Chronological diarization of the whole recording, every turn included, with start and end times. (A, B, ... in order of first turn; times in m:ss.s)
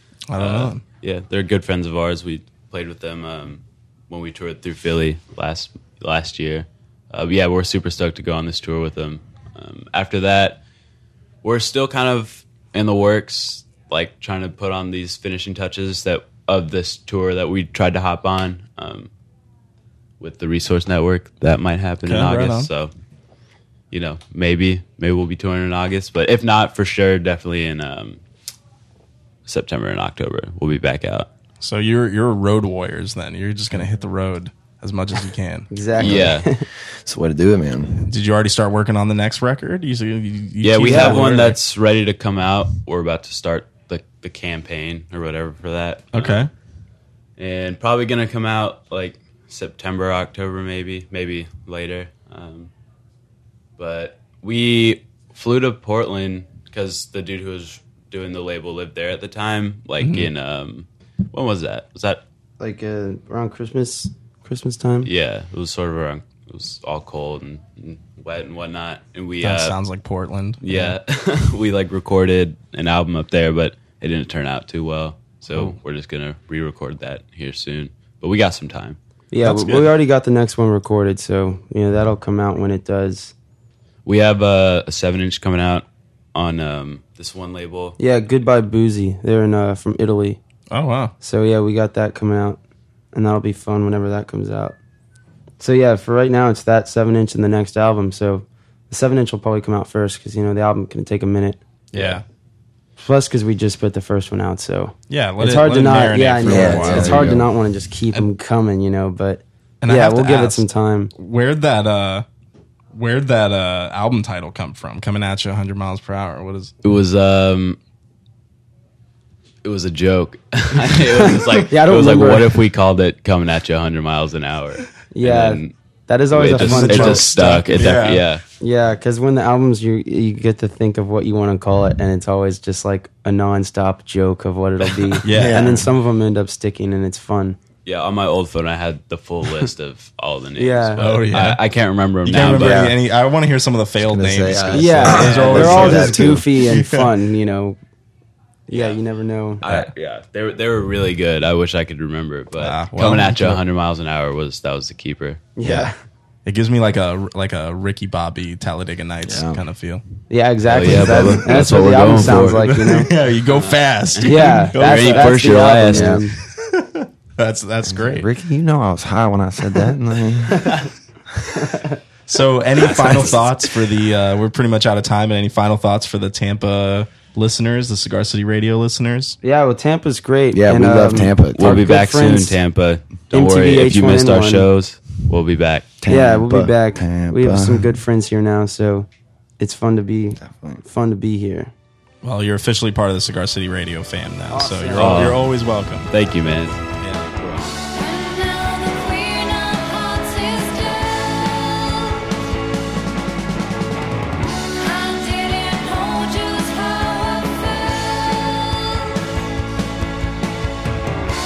0:00.3-0:00.8 A
0:00.4-0:10.6 B
0:11.4-0:19.1 B
0:20.2-0:22.9 B
0:22.0-0:22.7 A
0:23.9-0:28.2 B
0:29.4-0:31.3 B
0:31.6-0:35.7 A
0:35.7-0:36.6 C
0:36.0-0:36.5 B
0:36.0-0:38.1 D
0:38.0-0:41.6 A
0:40.6-0:46.4 B
0:40.8-0:41.3 C
0:46.1-0:46.5 A
0:47.4-0:52.7 B
0:53.8-1:02.2 B
1:00.0-1:00.3 A
1:02.6-1:05.1 C
1:05.0-1:09.8 B
1:09.4-1:11.0 A
1:10.6-1:19.0 B
1:19.3-1:23.3 C
1:19.4-1:19.9 A
1:24.0-1:28.0 B
1:28.0-1:30.4 C
1:30.7-1:31.1 A
1:31.2-1:32.6 C
1:33.1-1:34.8 C
1:35.6-1:41.6 C
1:41.9-1:42.2 A
1:41.9-1:42.2 B
1:43.0-1:51.1 C
1:45.1-1:47.4 A
1:46.4-1:47.5 D
1:49.8-1:50.6 A
1:51.2-1:52.2 A
1:52.9-1:56.7 A
1:56.8-1:57.8 B
1:59.6-2:05.7 B
2:01.1-2:02.6 C
2:05.1-2:07.3 C
2:06.3-2:08.4 B
2:06.5-2:08.3 A
2:08.6-2:17.6 C
2:15.2-2:15.8 A
2:15.3-2:15.9 D
2:17.8-2:22.9 B
2:20.6-2:21.2 C
2:21.0-2:21.6 A
2:22.2-2:27.1 A
2:22.5-2:22.9 D
2:24.0-2:26.4 D
2:24.7-2:27.8 C
2:25.1-2:25.6 B
2:28.7-2:29.6 C
2:28.7-2:29.0 B
2:29.6-2:35.5 B
2:32.6-2:33.6 A
2:35.6-2:35.9 C
2:35.6-2:35.9 A
2:36.4-2:40.0 A
2:39.2-2:39.6 D
2:40.3-2:43.1 C
2:40.7-2:42.7 B
2:40.9-2:48.3 A
2:43.5-2:46.2 B
2:44.2-2:46.3 C
2:47.8-2:50.8 D
2:50.5-2:50.8 C
2:51.6-2:52.0 C
2:52.3-2:59.4 A
2:53.0-2:53.4 B
2:59.4-3:02.6 C
3:00.5-3:01.8 D
3:01.5-3:06.0 B
3:03.3-3:04.7 C
3:06.0-3:08.0 D
3:06.0-3:09.1 C
3:09.6-3:11.7 C
3:10.4-3:10.8 D
3:12.2-3:16.2 A
3:14.5-3:15.4 C
3:15.0-3:15.5 B
3:16.1-3:16.8 B
3:17.0-3:17.3 A
3:17.6-3:22.8 E
3:24.7-3:29.0 E